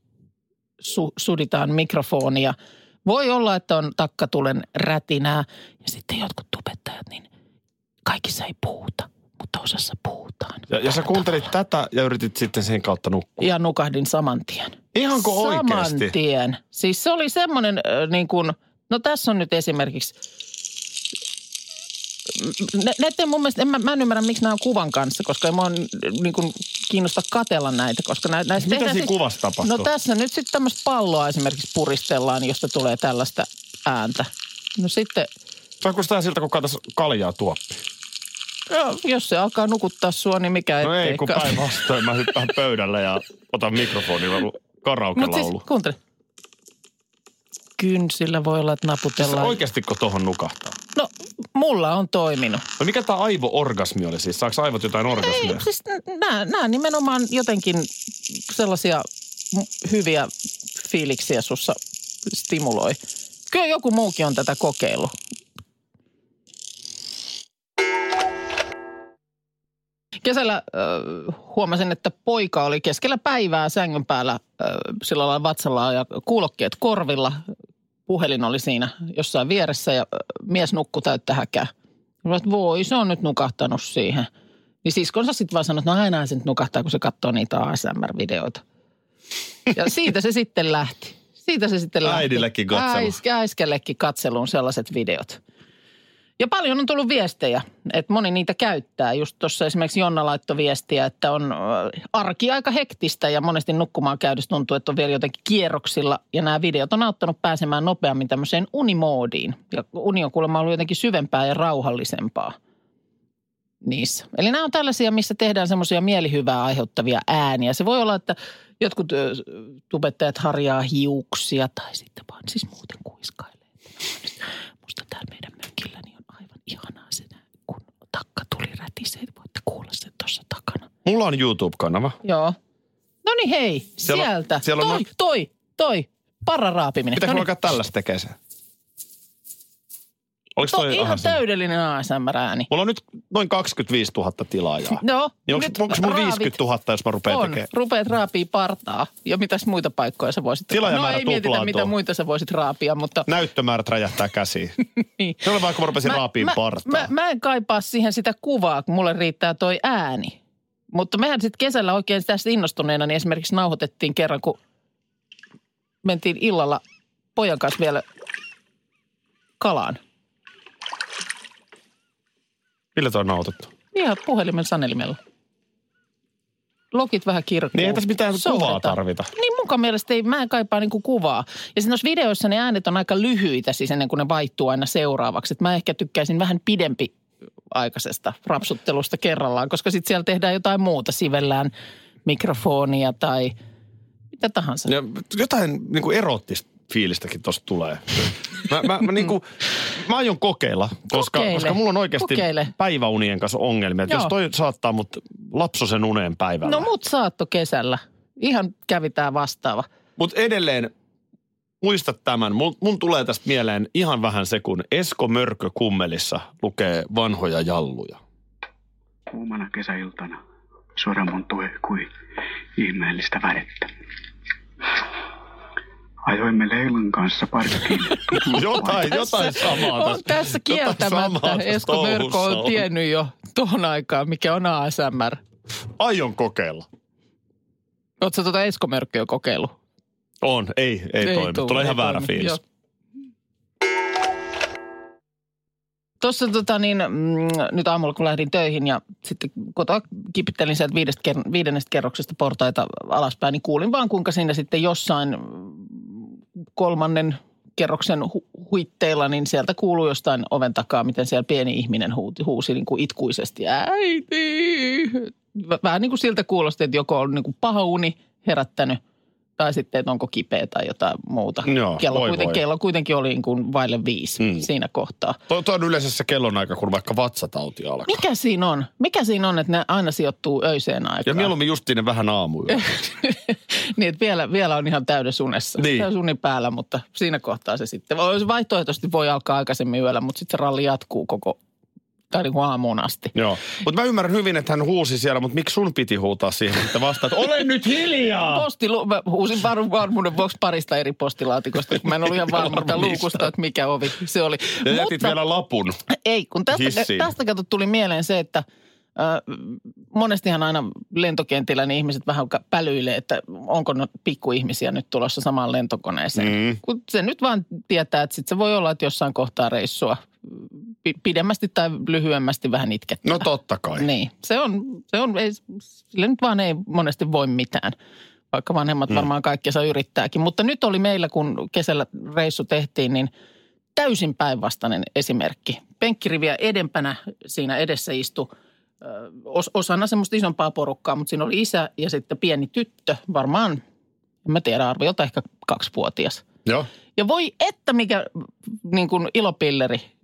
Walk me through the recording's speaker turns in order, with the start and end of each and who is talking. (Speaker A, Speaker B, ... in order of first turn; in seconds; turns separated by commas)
Speaker A: 0.8-7.3, Speaker A: 8.1-10.7, Speaker B: 10.7-13.5, Speaker A: 13.4-20.1, Speaker B: 14.9-16.1, Speaker A: 22.3-35.3, Speaker B: 28.6-29.9, Speaker B: 35.8-37.8, Speaker A: 38.7-41.6, Speaker B: 40.8-45.6, Speaker A: 45.1-46.0, Speaker A: 47.8-49.6, Speaker B: 49.2-50.8, Speaker A: 50.9-52.6, Speaker B: 52.8-55.6, Speaker A: 55.1-65.1, Speaker A: 70.2-77.4, Speaker A: 78.1-81.7, Speaker A: 82.2-84.3, Speaker A: 84.8-88.6, Speaker A: 89.7-95.4, Speaker B: 92.0-93.2, Speaker A: 96.4-112.5, Speaker A: 113.8-130.9, Speaker B: 131.0-132.2, Speaker A: 132.2-132.6, Speaker A: 133.2-137.5, Speaker B: 134.1-135.0, Speaker B: 137.2-138.3, Speaker B: 140.6-141.4, Speaker A: 140.6-142.7, Speaker B: 142.7-147.7, Speaker A: 145.0-146.5, Speaker A: 147.3-153.3, Speaker B: 150.7-151.9, Speaker B: 153.2-154.8, Speaker B: 155.4-157.1, Speaker A: 156.0-160.4, Speaker A: 160.9-164.6, Speaker A: 166.0-166.8, Speaker A: 167.3-168.0, Speaker A: 169.6-170.0, Speaker B: 172.9-173.7, Speaker A: 173.9-175.2, Speaker A: 176.9-187.1, Speaker B: 177.7-179.3, Speaker A: 187.7-191.7, Speaker A: 192.2-193.6, Speaker A: 194.3-194.9, Speaker B: 194.9-206.9, Speaker A: 201.1-202.7, Speaker A: 204.1-204.3, Speaker A: 206.6-209.9, Speaker B: 210.2-210.9, Speaker B: 211.8-218.2, Speaker C: 219.3-220.4, Speaker C: 220.9-222.1, Speaker C: 222.8-223.9, Speaker C: 226.2-228.9, Speaker B: 228.5-232.8, Speaker A: 228.6-235.4, Speaker B: 236.0-236.8, Speaker A: 238.2-239.7, Speaker B: 240.4-242.6, Speaker A: 241.2-242.6, Speaker A: 246.2-269.0, Speaker A: 269.6-275.4, Speaker B: 271.6-272.6, Speaker B: 274.4-274.6, Speaker B: 275.5-278.2, Speaker A: 278.1-281.5, Speaker B: 281.2-283.1, Speaker A: 282.7-291.6, Speaker B: 285.8-286.1, Speaker A: 292.3-293.3, Speaker B: 293.3-298.6, Speaker A: 298.5-305.3, Speaker B: 302.5-303.4, Speaker B: 304.8-306.0, Speaker A: 306.1-308.6, Speaker B: 306.7-307.3, Speaker A: 309.1-327.9, Speaker B: 316.4-316.8, Speaker B: 323.2-324.1, Speaker A: 328.5-333.3, Speaker A: 333.9-338.5, Speaker A: 339.0-343.8, Speaker A: 344.4-346.4, Speaker A: 347.1-350.1